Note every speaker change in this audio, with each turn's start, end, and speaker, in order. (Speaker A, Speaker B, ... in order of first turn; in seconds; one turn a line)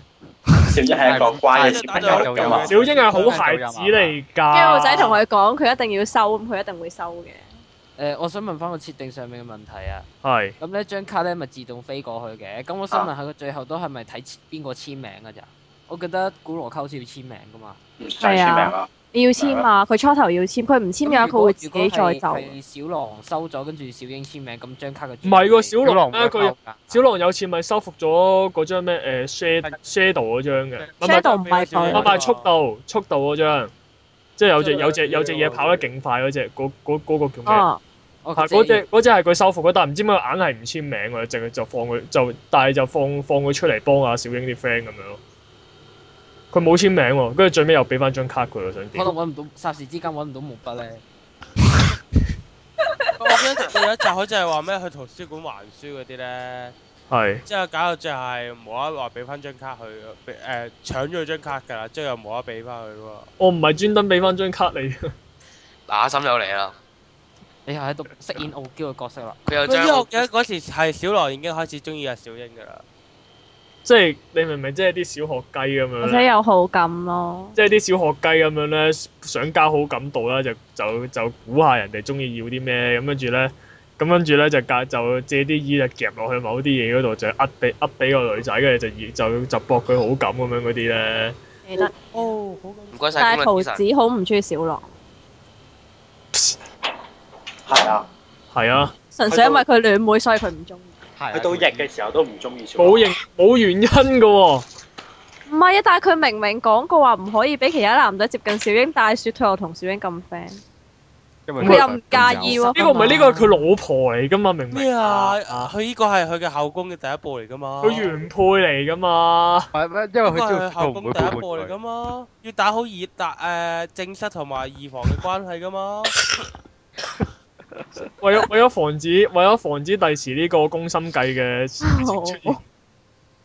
Speaker A: 0.6-2.7
Speaker B: 1.0-4.2
Speaker C: 1.1-2.8
Speaker D: 2.6-5.2
Speaker E: 4.5-7.5
Speaker F: 8.0-10.1
Speaker D: 10.2-10.6
Speaker F: 10.6-17.8
Speaker A: 18.0-19.7
Speaker E: 18.2-22.5
Speaker F: 21.0-25.8
Speaker D: 25.2-31.3
Speaker B: 25.8-27.0
Speaker B: 30.8-31.3
Speaker E: 31.0-32.1
Speaker C: 31.2-32.5
Speaker D: 31.9-33.7
Speaker D: 34.4-37.7
Speaker F: 34.6-35.8
Speaker E: 37.5-37.8
Speaker F: 38.2-38.8
Speaker D: 38.4-45.2
Speaker D: 46.5-49.1
Speaker F: 48.9-51.0
Speaker C: 53.2-56.7
Speaker D: 57.1-57.4
Speaker C: 57.5-63.3
Speaker D: 63.4-65.1
Speaker G: 65.9-66.8
Speaker F: 67.7-69.4
Speaker G: 69.4-70.3
Speaker C: 69.6-72.8
Speaker D: 73.8-76.2
Speaker E: 76.0-77.6
Speaker D: 77.5-91.3
Speaker E: 91.6-92.0
Speaker C: 92.1-92.9
Speaker G: 92.9-93.8
Speaker E: 93.2-94.9
Speaker A: 97.7-98.1
Speaker D: 98.5-98.9
Speaker E: 99.1-100.9
Speaker A: 99.3-99.6
Speaker B: 101.2-101.9
Speaker A: 101.3-103.1
Speaker D: 102.8-104.6
Speaker E: 105.5-110.6
Speaker B: 111.5-112.7
Speaker E: 111.6-113.4
Speaker D: 112.5-115.7
Speaker F: 112.8-113.4
Speaker C: 114.7-118.1
Speaker D: 117.8-119.7
Speaker B: 119.7-121.8
Speaker C: 120.2-126.2
Speaker D: 128.2-132.6
Speaker E: 131.8-132.6